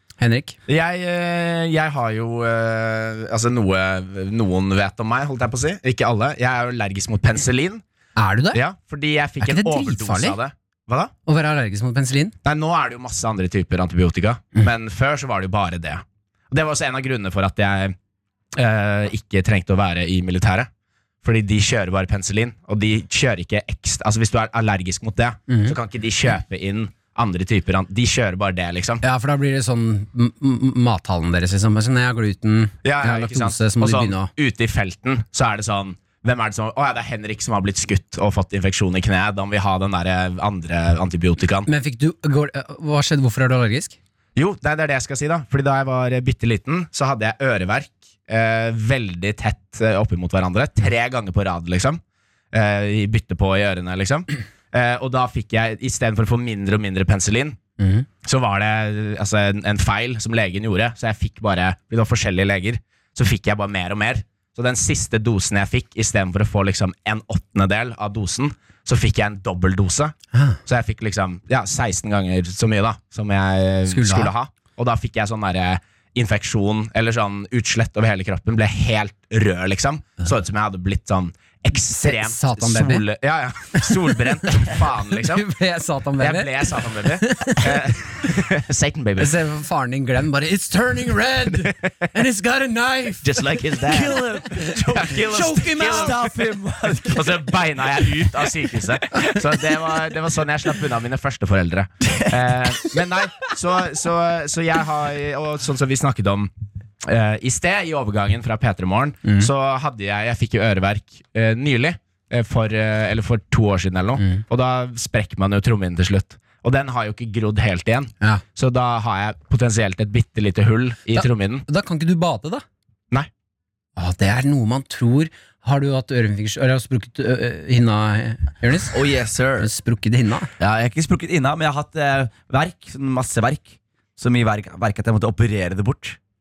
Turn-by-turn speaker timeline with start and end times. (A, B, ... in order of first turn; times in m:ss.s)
0:00.2-0:00.6 A
0:00.7-0:07.8 B
0:08.2-0:08.6 A
0:08.5-0:11.1 B
0:09.4-0:10.4 A
0:11.2-0:12.3 A
0:12.4-0:18.0 B
0:18.5-0:20.7 B
0:21.2-0:29.0 B
0:25.5-0:25.8 A
0:29.0-0:34.3 A
0:32.8-0:41.7 B
0:41.7-0:44.0 A
0:44.4-0:52.0 B
0:52.5-0:57.6 B
0:57.8-0:58.0 A
0:58.2-1:10.1 B
1:10.3-1:10.6 A
1:10.6-1:25.4 B
1:13.9-1:14.3 A
1:21.9-1:23.0 A
1:23.8-1:24.6 A
1:25.1-1:27.9 A
1:26.2-1:29.3 B
1:29.2-1:36.2 A
1:31.5-1:31.8 B
1:33.2-1:36.3 B
1:33.8-1:35.3 C
1:35.8-1:37.6 C
1:37.0-1:46.5 B
1:42.0-1:42.4 C
1:47.0-2:01.6 B
1:54.2-1:54.4 A
2:01.1-2:02.6 A
2:04.0-2:09.0 A
2:08.9-2:09.7 C
2:09.6-2:10.5 A
2:10.6-2:16.2 C